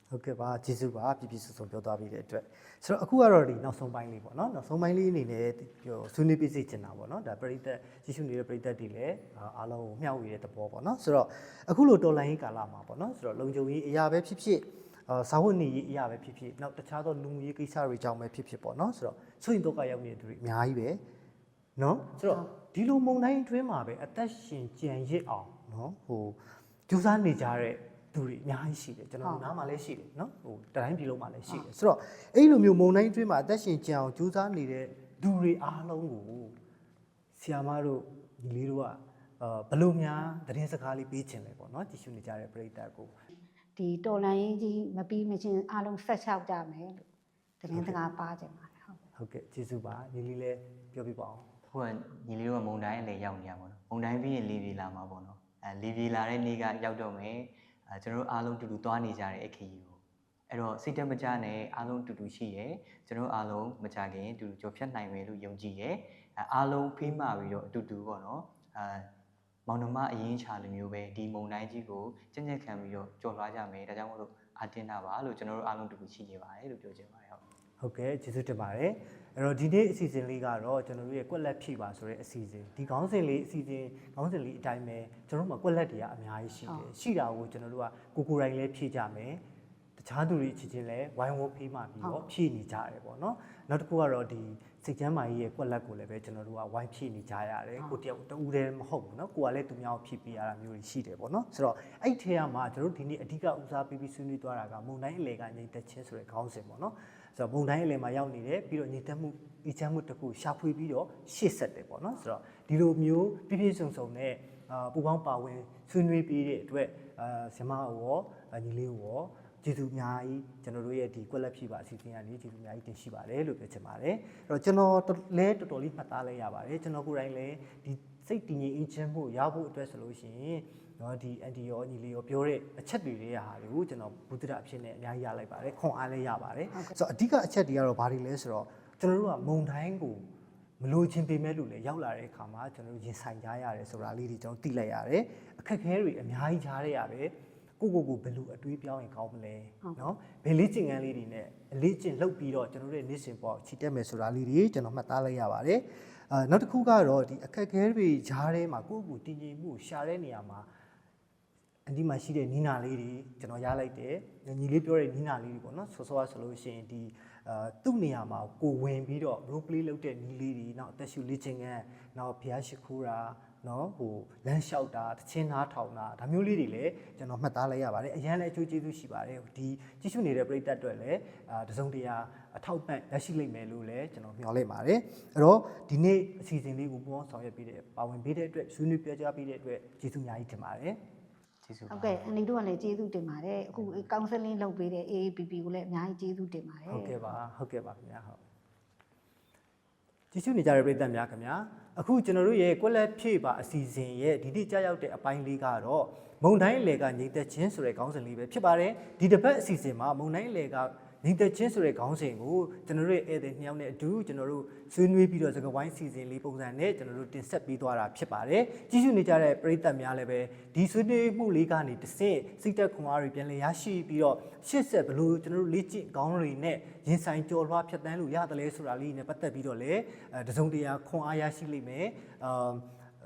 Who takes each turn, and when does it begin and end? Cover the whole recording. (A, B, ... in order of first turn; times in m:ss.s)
0:00.1-0:21.0 A
0:21.8-0:36.6 A
0:29.2-0:29.5 B
0:37.3-0:43.1 A
0:43.8-0:47.1 B
0:47.6-0:49.0 B
0:47.7-0:48.0 A
0:49.2-0:51.5 A
0:51.7-1:09.1 C
1:09.7-1:17.4 C
1:17.8-1:29.4 A
1:30.0-2:20.3 A
2:20.8-2:40.7 A
2:41.9-3:11.0 A
3:11.6-3:12.3 C
3:11.9-3:17.4 B
3:16.9-3:18.4 A
3:20.3-3:52.8 A